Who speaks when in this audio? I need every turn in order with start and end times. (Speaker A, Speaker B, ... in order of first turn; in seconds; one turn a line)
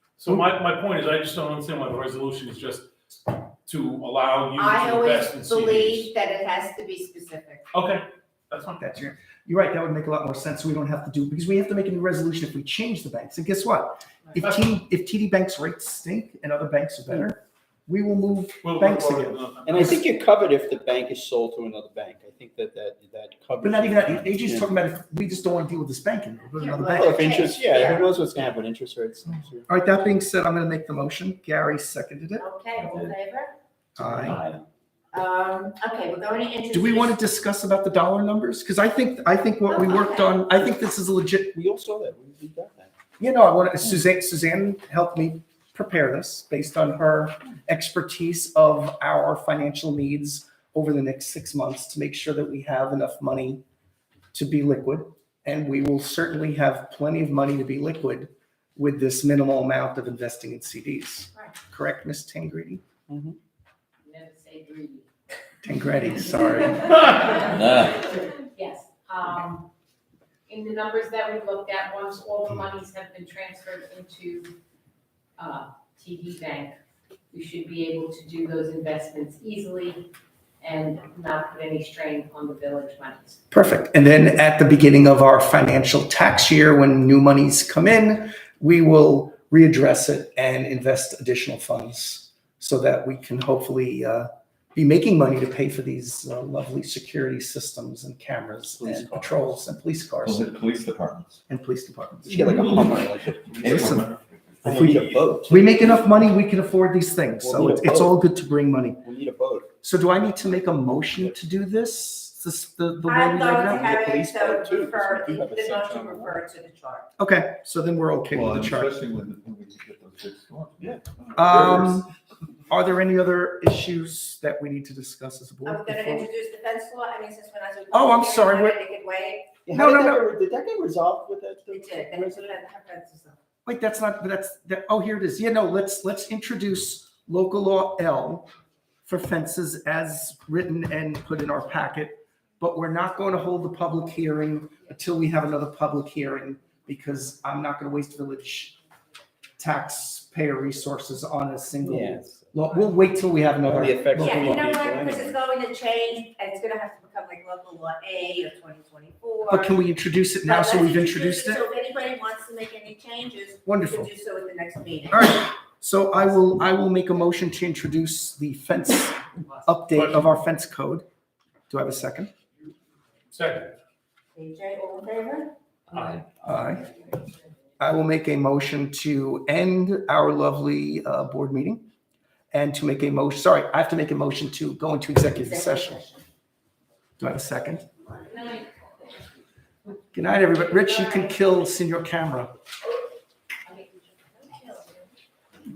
Speaker A: 0.2-6.1
Speaker B: 4.5-7.7
Speaker A: 7.7-8.8
Speaker C: 8.8-20.0
Speaker A: 18.6-20.2
Speaker D: 19.6-24.7
Speaker C: 23.6-27.2
Speaker B: 26.6-28.1
Speaker D: 26.8-29.7
Speaker C: 29.7-32.5
Speaker B: 32.4-33.5
Speaker C: 34.0-34.4
Speaker D: 34.0-34.6
Speaker B: 35.1-37.2
Speaker C: 36.7-41.5
Speaker B: 39.7-40.4
Speaker D: 41.5-42.9
Speaker C: 43.2-53.6
Speaker C: 54.3-62.8
Speaker D: 63.1-63.4
Speaker E: 64.0-65.1
Speaker C: 65.6-67.1
Speaker E: 66.4-69.7
Speaker E: 70.5-74.5
Speaker E: 75.4-76.8
Speaker E: 77.3-80.1
Speaker E: 80.6-83.4
Speaker C: 83.5-100.5
Speaker D: 98.7-99.4
Speaker F: 100.2-101.4
Speaker C: 101.5-102.8
Speaker D: 102.3-103.9
Speaker F: 102.4-102.9
Speaker F: 103.4-105.3
Speaker C: 103.6-104.1
Speaker D: 104.6-106.0
Speaker C: 104.6-109.0
Speaker D: 107.4-108.1
Speaker D: 109.0-109.7
Speaker C: 109.8-113.9
Speaker B: 113.1-117.1
Speaker D: 113.6-116.4
Speaker C: 117.2-118.9
Speaker F: 118.3-122.0
Speaker D: 120.8-121.6
Speaker C: 121.3-122.1
Speaker C: 122.7-126.3
Speaker B: 125.6-129.6
Speaker C: 127.9-128.8
Speaker D: 129.7-132.5
Speaker C: 129.7-130.2
Speaker B: 131.7-133.4
Speaker C: 133.6-138.5
Speaker C: 139.1-148.7
Speaker C: 149.6-154.6
Speaker D: 151.8-152.5
Speaker D: 153.6-155.4
Speaker B: 154.2-159.8
Speaker C: 159.5-161.6
Speaker B: 160.4-165.3
Speaker C: 163.6-164.1
Speaker C: 165.1-171.0
Speaker E: 169.3-169.7
Speaker A: 169.9-170.3
Speaker C: 171.7-172.3
Speaker A: 173.3-173.7
Speaker B: 174.3-175.5
Speaker E: 175.9-177.8
Speaker A: 175.9-176.2
Speaker C: 176.4-176.9
Speaker C: 177.8-181.8
Speaker C: 182.5-186.0
Speaker B: 185.3-186.2
Speaker C: 187.2-187.8
Speaker E: 188.2-189.3
Speaker C: 190.1-192.5
Speaker E: 193.6-195.1